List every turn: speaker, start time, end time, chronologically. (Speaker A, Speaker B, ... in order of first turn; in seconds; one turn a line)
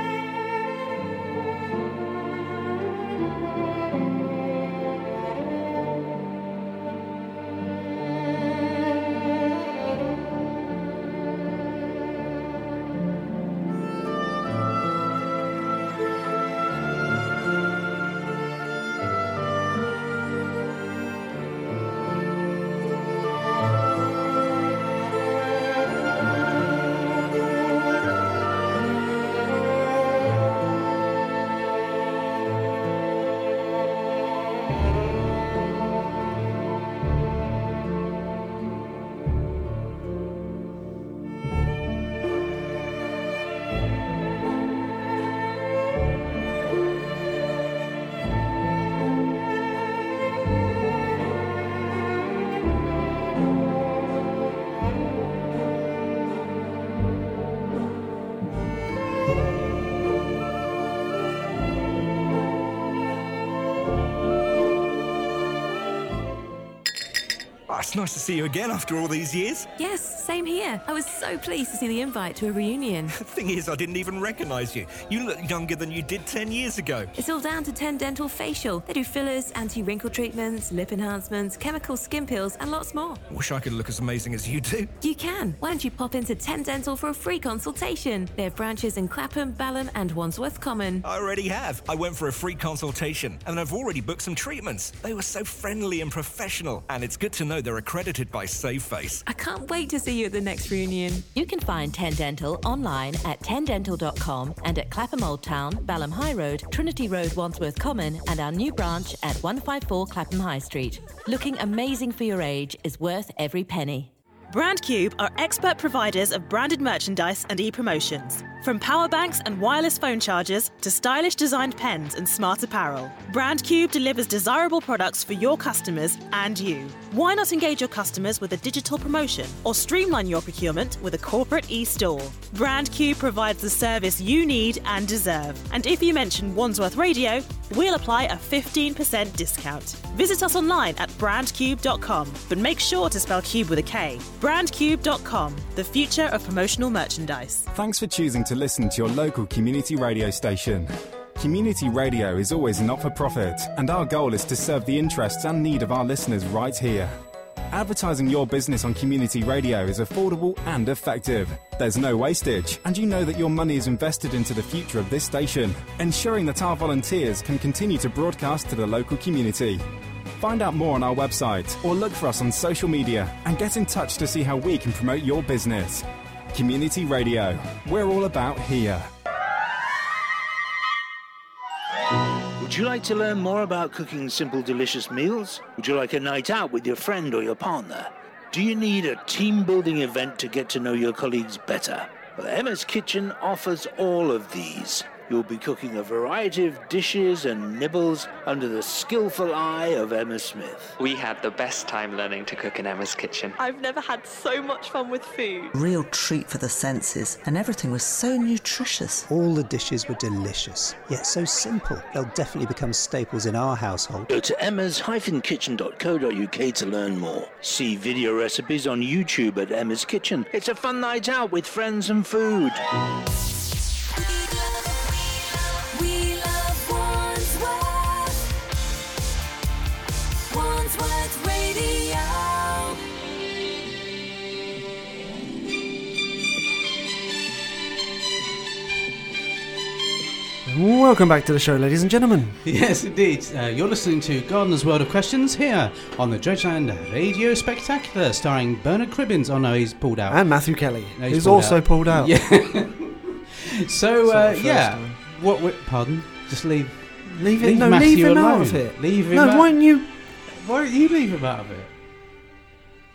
Speaker A: 67.7-69.7
Speaker B: 69.8-73.1
Speaker A: 73.1-77.1
Speaker B: 77.2-83.2
Speaker A: 83.3-84.9
Speaker B: 85.0-91.0
Speaker A: 91.0-99.2
Speaker B: 99.2-101.2
Speaker C: 101.3-114.1
Speaker D: 114.5-147.7
Speaker E: 147.7-157.1
Speaker E: 157.7-169.8
Speaker E: 170.4-179.1
Speaker F: 182.6-200.9
Speaker G: 201.0-203.6
Speaker H: 203.6-205.7
Speaker I: 205.7-209.2
Speaker J: 209.3-214.3
Speaker F: 214.3-222.8
Speaker C: 224.2-228.5
Speaker C: 230.5-233.0
Speaker K: 240.7-242.6
Speaker L: 242.6-250.6
Speaker K: 250.3-252.3
Speaker L: 251.1-259.8
Speaker K: 254.2-255.2
Speaker K: 257.2-260.1
Speaker L: 260.4-261.9